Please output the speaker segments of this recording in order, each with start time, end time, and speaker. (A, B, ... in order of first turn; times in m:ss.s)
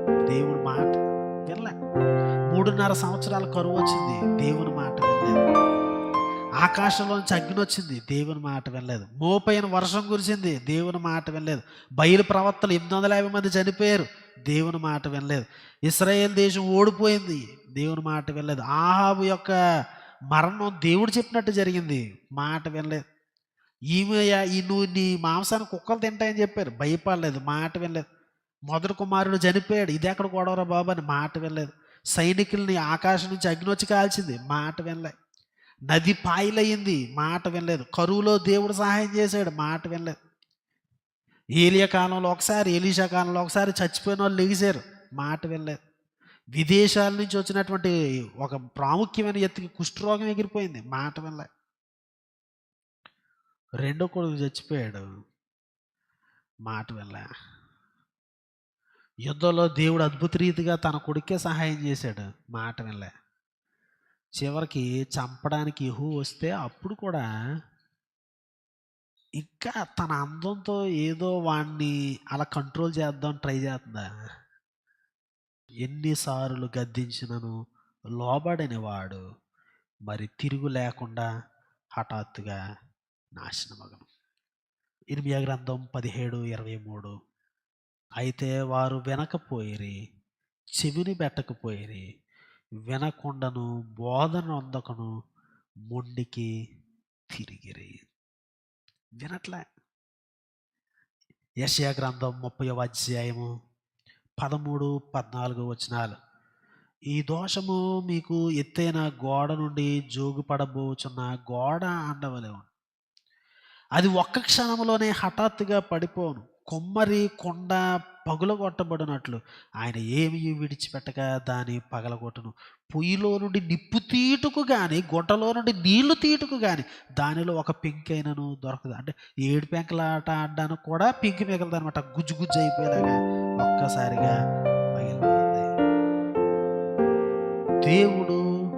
0:00.3-0:00.9 A
0:01.5-0:01.7 A
0:02.5-0:05.4 A
0:06.6-0:19.6 A
0:20.3-0:23.0 A
0:23.9-0:28.0 A
0:28.7-0:35.1 A
0:35.9-0:40.2 A
0:41.6-0:45.8 A
0:46.6-0:51.5 A
0:53.8-0:55.0 A
0:56.7-0:57.2 A
0:59.3-1:03.1 A
1:04.4-1:07.2 A
1:09.4-1:14.0 A
1:15.8-1:17.5 A
1:18.2-1:19.2 A
1:20.1-1:21.2 A
1:22.0-1:22.6 A
1:23.4-1:24.0 A
1:25.1-1:27.1 A
1:28.2-1:30.0 A
1:30.8-1:32.0 A
1:32.9-1:35.1 A
1:35.9-1:36.5 A
1:37.3-1:37.9 A
1:39.2-1:39.6 A
1:41.6-1:43.5 A
1:44.4-1:46.1 A
1:47.1-1:52.7 A
1:54.0-2:14.3 A
2:14.9-2:15.7 A
2:17.9-2:18.4 A